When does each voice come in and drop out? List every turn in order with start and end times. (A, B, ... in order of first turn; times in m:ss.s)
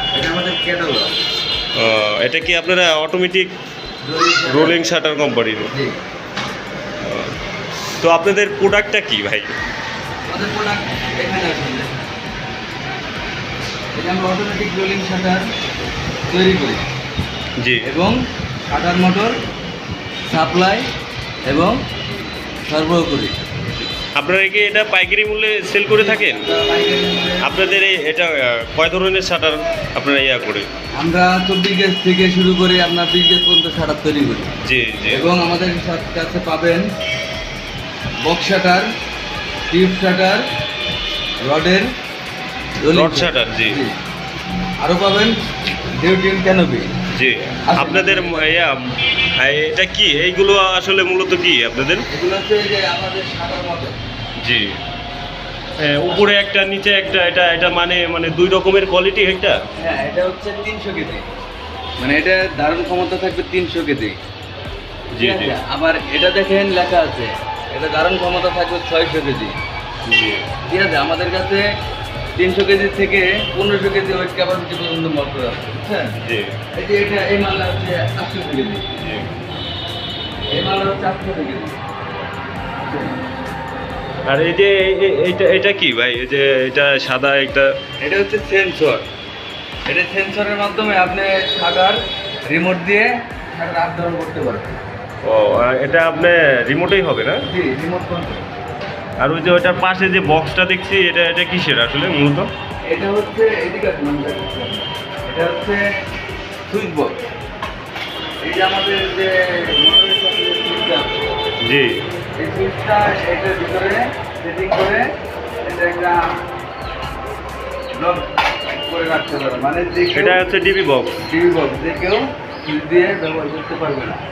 0:00.1-0:01.1 A
0:01.7-0:03.5 B
0:04.0-0:04.9 A
0:04.4-0:05.7 B
0:05.7-0:06.0 A
0:07.0-0:07.3 B
0:08.0-0:09.5 B
0:10.3-0:11.9 A
0:13.9-0:15.4 A
0:16.3-0:16.8 A
0:17.6-0:17.8 B
0:17.8-0:18.2 A
0:18.7-0:19.3 A
0:20.3-0:20.8 A
0:21.4-0:21.8 A
0:22.7-0:23.3 A
0:24.2-0:26.4 B
0:25.9-0:27.7 A
0:27.4-0:30.6 B
0:31.0-0:34.5 A
0:34.6-0:35.3 B
0:35.1-0:36.9 A
0:38.2-0:38.9 A
0:39.7-0:40.4 A
0:41.4-0:41.9 A
0:42.8-0:43.9 A
0:42.9-0:43.8 B
0:44.8-0:45.4 A
0:45.9-0:46.9 A
0:47.1-0:48.8 B
0:47.7-0:48.5 A
0:49.4-0:52.0 B
0:52.1-0:54.0 A
0:54.4-0:54.7 B
0:55.8-0:59.6 B
0:59.8-1:01.3 A
1:02.0-1:04.2 A
1:05.1-1:05.6 B
1:05.2-1:09.6 A
1:10.0-1:10.5 B
1:10.7-1:11.6 A
1:12.4-1:16.1 A
1:16.2-1:16.6 B
1:16.7-1:18.8 A
1:19.0-1:19.3 B
1:20.5-1:21.7 A
1:22.8-1:23.2 A
1:24.2-1:27.7 B
1:28.0-1:29.0 A
1:29.9-1:34.8 A
1:35.2-1:37.4 B
1:37.5-1:38.4 A
1:39.2-1:42.5 B
1:42.9-1:45.8 A
1:46.7-1:47.2 A
1:48.4-1:51.2 A
1:51.6-1:52.0 B
1:52.4-1:55.0 A
1:55.6-1:56.3 A
1:58.0-2:00.4 A
2:00.1-2:01.2 B
2:01.2-2:04.2 A